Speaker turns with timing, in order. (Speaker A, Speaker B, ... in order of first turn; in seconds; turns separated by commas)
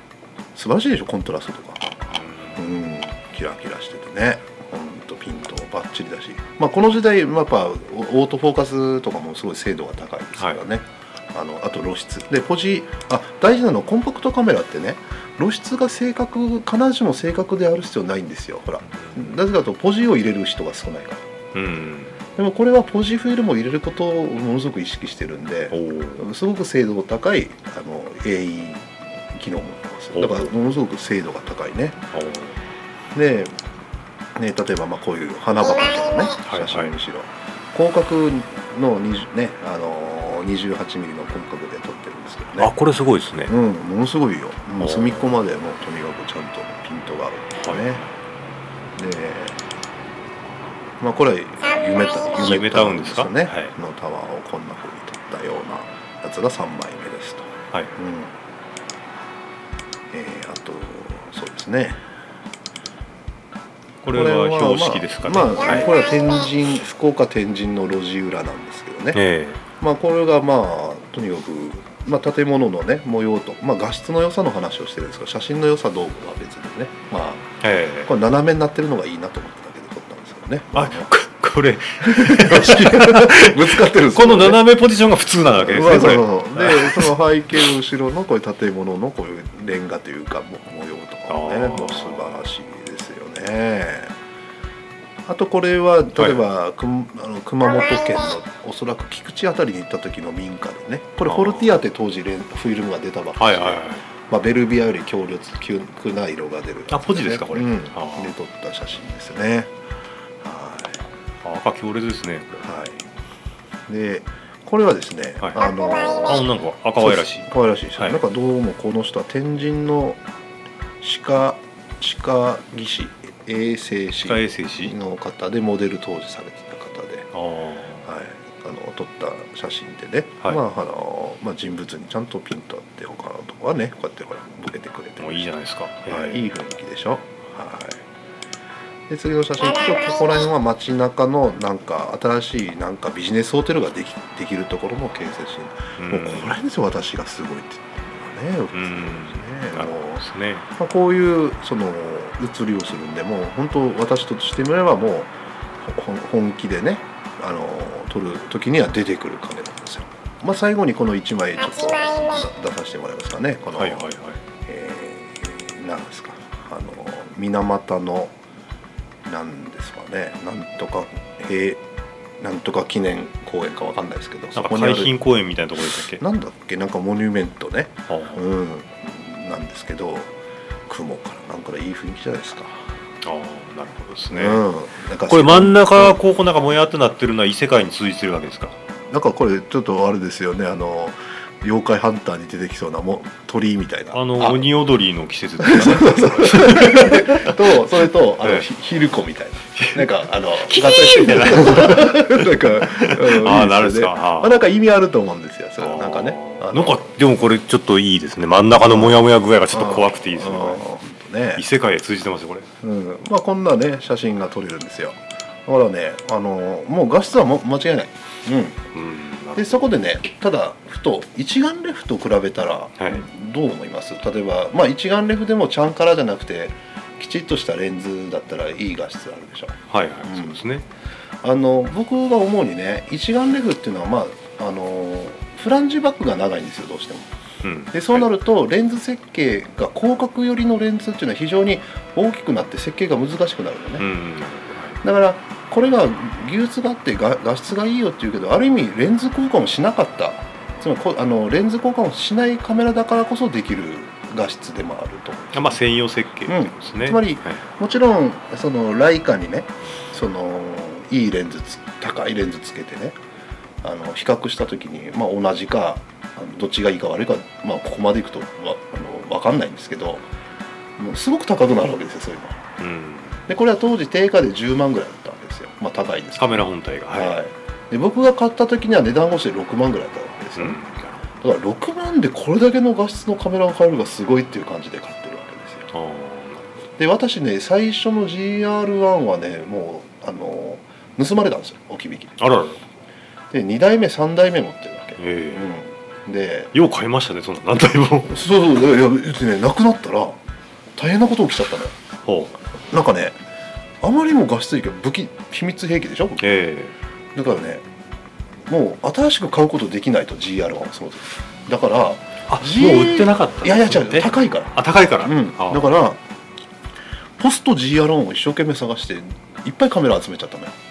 Speaker A: 0.6-1.9, Speaker B: 2.1-2.7, Speaker A: 2.5-21.2, Speaker B: 18.9-19.4, Speaker B: 21.5-22.2, Speaker A: 22.4-32.0, Speaker B: 25.7-26.2, Speaker B: 30.1-30.5, Speaker B: 32.1-32.6, Speaker A: 33.1-33.5, Speaker A: 34.4-42.7, Speaker B: 36.5-36.9, Speaker B: 42.6-43.5, Speaker A: 43.5-48.0, Speaker B: 44.8-45.3, Speaker B: 47.6-47.9, Speaker A: 49.0-49.6, Speaker A: 51.0-58.3, Speaker B: 52.3-53.7, Speaker A: 60.1-62.0, Speaker B: 64.0-65.9, Speaker A: 64.1-69.2, Speaker B: 69.1-69.6, Speaker A: 69.8-77.5, Speaker B: 77.6-78.1, Speaker A: 78.0-81.1, Speaker B: 80.7-87.1, Speaker A: 82.0-84.6, Speaker A: 85.5-94.1, Speaker B: 91.3-92.5, Speaker A: 95.2-109.7, Speaker B: 96.2-96.4, Speaker B: 101.2-101.7, Speaker B: 103.4-104.0, Speaker B: 106.9-108.3, Speaker A: 110.4-111.0, Speaker B: 111.4-112.7, Speaker A: 112.6-113.0, Speaker A: 113.9-116.5, Speaker B: 115.4-115.7, Speaker B: 116.2-118.2, Speaker A: 117.0-120.2, Speaker A: 121.0-127.3, Speaker B: 124.2-124.9, Speaker B: 127.3-128.1, Speaker A: 128.0-135.4, Speaker B: 135.2-136.5, Speaker A: 136.1-138.0, Speaker A: 139.1-150.2, Speaker B: 146.0-146.5, Speaker B: 148.7-150.7, Speaker A: 150.8-155.3, Speaker A: 155.8-164.1, Speaker B: 163.7-164.4, Speaker A: 164.6-168.3, Speaker A: 169.2-171.8, Speaker A: 172.4-175.3, Speaker B: 174.5-176.2, Speaker A: 176.1-180.3, Speaker B: 178.1-178.4, Speaker A: 180.9-182.9, Speaker B: 183.2-184.6, Speaker A: 184.3-186.2, Speaker B: 185.2-188.8, Speaker A: 189.1-194.7, Speaker B: 194.1-198.7, Speaker A: 195.6-207.1, Speaker B: 199.8-204.6, Speaker B: 205.8-210.9, Speaker A: 208.8-209.2, Speaker A: 209.7-211.6, Speaker B: 211.5-212.7, Speaker A: 212.8-218.8, Speaker B: 218.9-219.9, Speaker A: 219.5-230.6, Speaker B: 223.0-223.3, Speaker B: 229.9-230.8, Speaker A: 231.4-237.3, Speaker B: 237.6-238.3, Speaker A: 237.9-244.1, Speaker B: 244.0-245.0, Speaker A: 245.0-255.8, Speaker B: 255.5-257.6, Speaker A: 256.4-263.1, Speaker A: 263.8-270.3, Speaker A: 271.0-272.6, Speaker B: 272.8-273.4, Speaker A: 273.5-276.6, Speaker B: 276.4-277.4, Speaker A: 277.1-280.8, Speaker B: 280.6-281.2, Speaker A: 281.4-285.9, Speaker B: 285.9-286.7, Speaker A: 287.0-292.4, Speaker B: 292.4-292.8, Speaker A: 293.5-296.7, Speaker B: 295.2-295.7, Speaker B: 296.7-298.4, Speaker A: 298.3-300.4, Speaker A: 301.0-301.9, Speaker B: 302.2-302.6, Speaker A: 302.9-303.4, Speaker A: 304.0-306.4, Speaker B: 306.4-306.9, Speaker A: 307.3-307.8, Speaker A: 308.7-316.2, Speaker B: 312.5-316.0, Speaker A: 317.4-320.7